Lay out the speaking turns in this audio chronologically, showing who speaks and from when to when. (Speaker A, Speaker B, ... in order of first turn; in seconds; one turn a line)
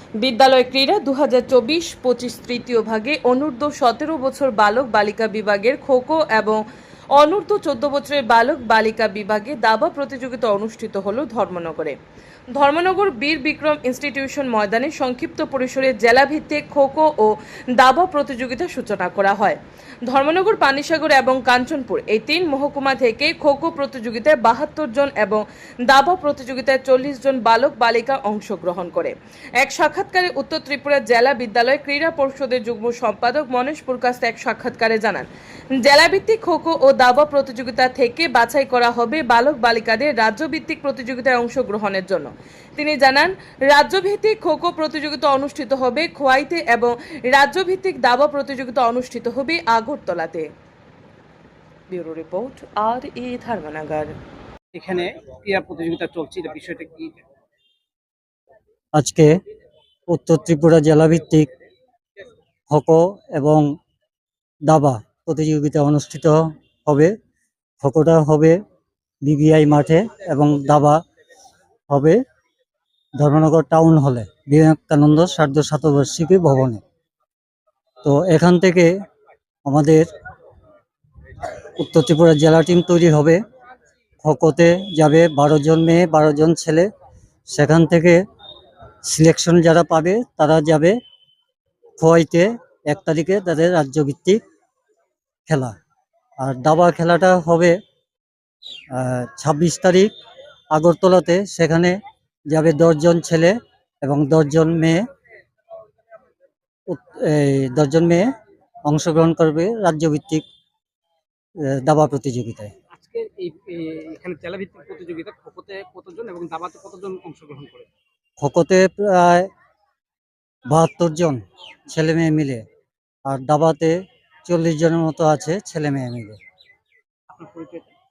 Speaker A: 0.2-6.6
Speaker A: 7.1-11.9
Speaker A: 12.5-50.5
Speaker A: 51.9-54.1
Speaker B: 54.7-57.2
Speaker C: 59.0-59.3
Speaker C: 60.1-61.5
Speaker C: 62.7-63.7
Speaker C: 64.7-67.1
Speaker C: 67.8-68.6
Speaker C: 69.2-71.0
Speaker C: 71.9-72.2
Speaker C: 73.2-76.8
Speaker C: 78.0-78.9
Speaker C: 79.7-80.1
Speaker C: 81.8-83.4
Speaker C: 84.2-86.9
Speaker C: 87.5-88.2
Speaker C: 89.0-91.0
Speaker C: 92.0-94.4
Speaker C: 95.5-95.8
Speaker C: 96.4-97.8
Speaker C: 98.9-100.1
Speaker C: 100.7-102.0
Speaker C: 102.5-105.0
Speaker C: 106.9-108.3
Speaker C: 108.9-110.4
Speaker C: 111.6-112.7
Speaker B: 112.9-117.9
Speaker C: 118.4-119.5
Speaker C: 120.7-122.6
Speaker C: 123.2-126.4
Speaker B: 127.3-127.9